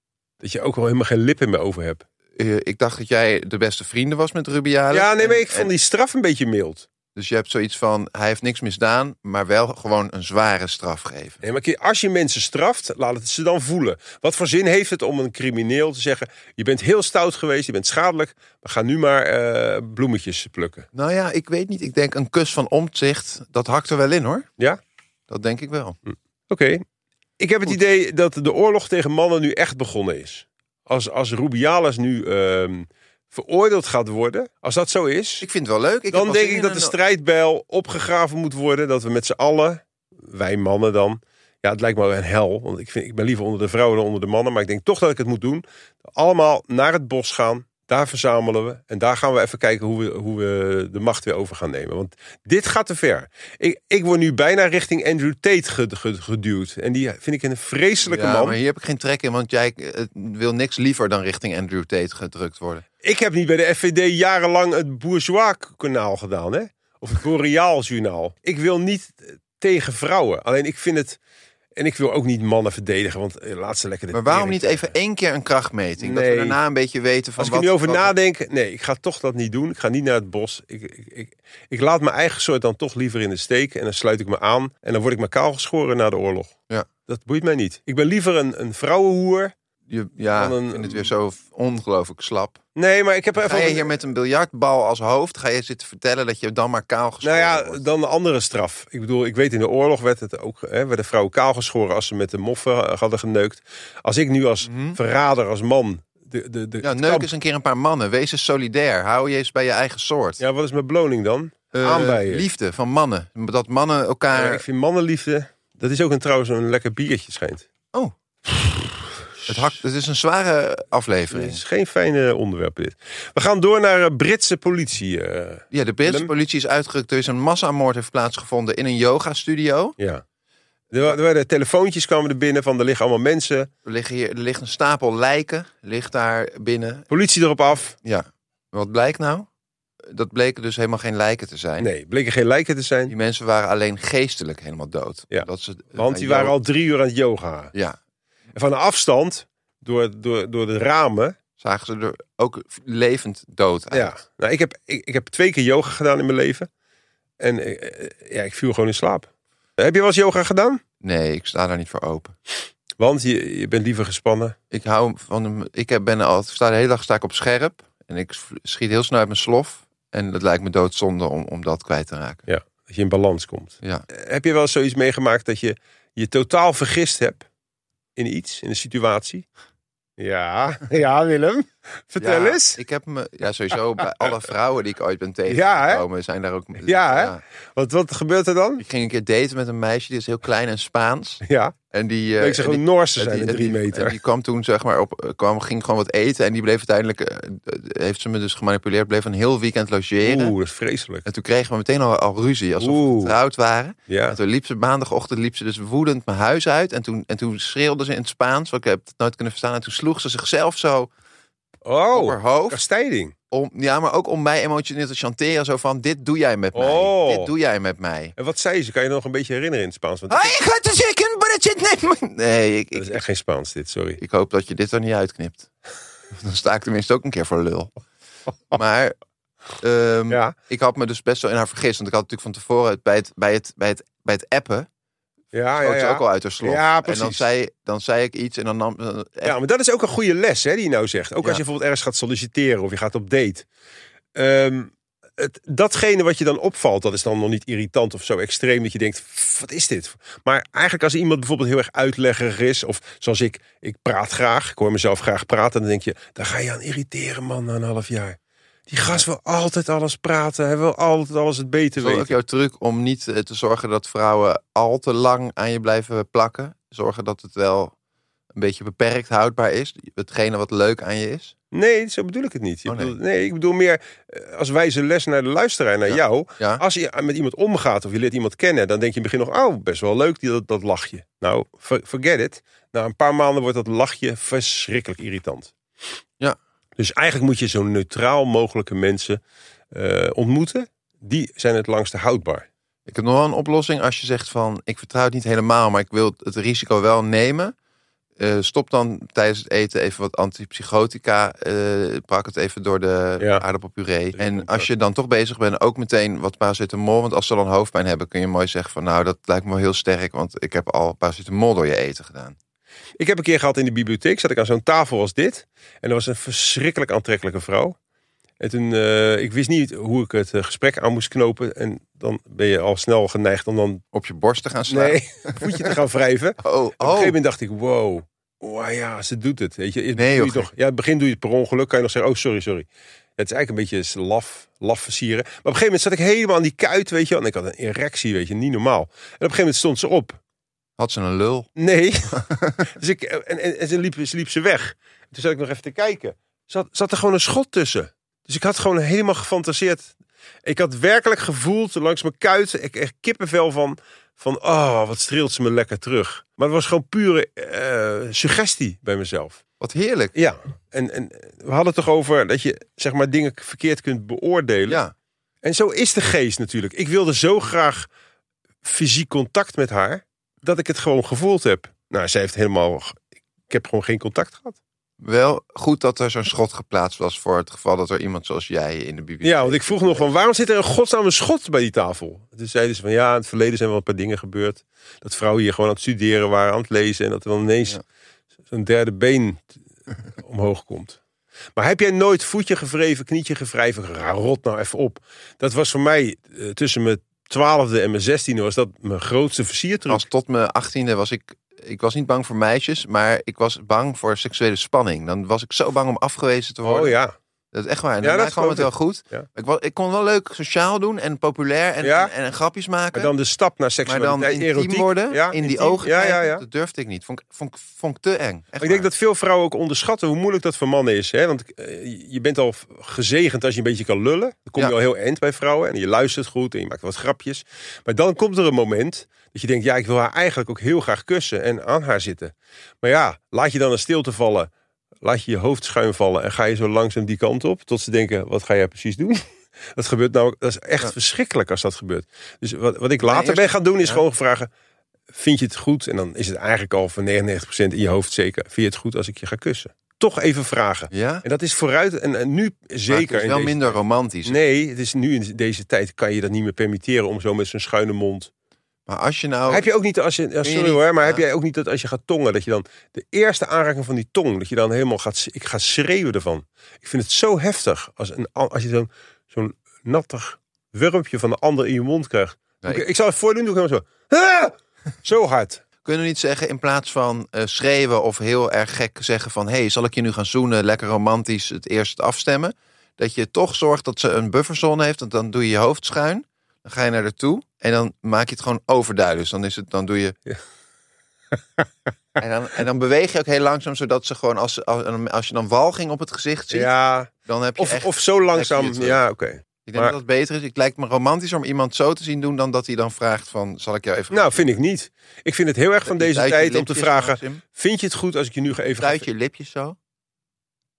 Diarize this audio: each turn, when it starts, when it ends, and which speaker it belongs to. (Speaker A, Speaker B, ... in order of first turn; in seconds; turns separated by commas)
Speaker A: 0.4-2.0, Speaker B: 2.4-5.7, Speaker A: 4.9-6.9, Speaker B: 7.2-11.4, Speaker A: 11.4-20.9, Speaker B: 20.9-24.5, Speaker B: 25.3-26.0, Speaker A: 26.1-26.8, Speaker A: 27.4-35.5, Speaker B: 35.4-36.9, Speaker A: 36.1-58.6, Speaker B: 58.1-62.9, Speaker A: 63.0-71.2, Speaker A: 71.8-74.9, Speaker B: 74.1-78.1, Speaker A: 76.0-76.6, Speaker A: 77.4-86.5, Speaker A: 87.1-89.5, Speaker B: 89.9-92.6, Speaker A: 90.4-91.1, Speaker A: 92.8-93.9, Speaker B: 93.4-97.8, Speaker A: 97.2-107.3, Speaker B: 104.6-105.0, Speaker B: 106.8-110.4, Speaker A: 110.4-112.5, Speaker B: 111.7-114.6, Speaker A: 114.3-117.7, Speaker A: 118.5-119.7, Speaker B: 119.5-121.6, Speaker A: 121.3-126.3, Speaker B: 125.7-130.0, Speaker A: 130.9-133.7, Speaker B: 133.8-137.1, Speaker A: 137.1-138.0, Speaker B: 138.0-139.5, Speaker B: 140.0-141.9, Speaker A: 141.8-143.1, Speaker B: 143.1-146.6, Speaker A: 145.3-147.7, Speaker A: 148.6-151.3, Speaker B: 151.6-154.2, Speaker A: 153.9-156.7, Speaker A: 157.4-160.8, Speaker B: 161.0-162.3, Speaker A: 163.0-164.6, Speaker B: 164.7-172.4, Speaker A: 172.5-177.5, Speaker A: 178.2-179.5, Speaker A: 180.2-182.8, Speaker B: 182.2-187.4, Speaker A: 185.5-186.0, Speaker A: 186.8-188.8, Speaker B: 188.8-200.6, Speaker A: 191.4-191.8, Speaker A: 192.4-194.2, Speaker A: 200.2-201.2, Speaker B: 201.2-211.1, Speaker A: 202.8-203.4, Speaker A: 204.1-204.4, Speaker A: 211.8-213.3, Speaker B: 212.1-212.8, Speaker B: 213.5-218.3, Speaker A: 216.8-217.5, Speaker A: 218.4-220.6, Speaker B: 220.3-223.2, Speaker A: 222.9-224.2, Speaker B: 224.2-225.7, Speaker B: 226.3-227.9, Speaker B: 228.7-229.2, Speaker B: 229.8-234.9, Speaker A: 230.3-230.6, Speaker A: 235.5-237.4, Speaker B: 235.8-239.6, Speaker A: 239.4-243.7, Speaker A: 244.4-258.4, Speaker A: 258.9-262.3, Speaker B: 262.0-267.9, Speaker B: 268.6-271.5, Speaker A: 271.7-285.7, Speaker B: 272.9-273.1, Speaker B: 276.1-276.8, Speaker A: 287.0-289.4, Speaker A: 289.9-292.6, Speaker B: 293.1-297.7, Speaker B: 298.4-312.6, Speaker A: 304.4-304.9, Speaker A: 313.2-318.0, Speaker A: 318.6-324.0, Speaker B: 324.1-325.9, Speaker A: 324.9-340.4, Speaker B: 326.6-327.4, Speaker B: 330.2-330.7, Speaker B: 341.0-341.7, Speaker A: 341.8-350.1, Speaker B: 342.4-342.9, Speaker A: 350.6-359.6, Speaker B: 359.8-360.3, Speaker A: 360.4-365.0, Speaker B: 364.9-365.1, Speaker A: 365.6-368.1, Speaker A: 368.8-373.2, Speaker A: 373.7-374.8, Speaker B: 375.2-380.3, Speaker A: 379.4-388.0, Speaker A: 388.7-389.7, Speaker A: 390.4-391.2, Speaker A: 391.8-400.2, Speaker B: 400.1-407.1, Speaker A: 406.8-407.4, Speaker B: 407.7-413.3, Speaker A: 408.2-409.5, Speaker A: 412.0-412.3, Speaker A: 413.1-416.6, Speaker B: 414.1-419.1, Speaker A: 418.8-434.7, Speaker A: 435.2-444.7, Speaker B: 443.2-444.2, Speaker A: 445.3-458.5, Speaker B: 451.1-451.4, Speaker B: 453.1-454.6, Speaker B: 459.1-459.9, Speaker A: 459.7-475.8, Speaker B: 460.6-461.4, Speaker B: 476.0-490.4, Speaker B: 492.4-496.9, Speaker A: 496.7-500.1, Speaker B: 497.5-499.2, Speaker B: 499.9-504.7, Speaker A: 504.3-509.3, Speaker B: 506.1-507.6, Speaker B: 509.0-510.0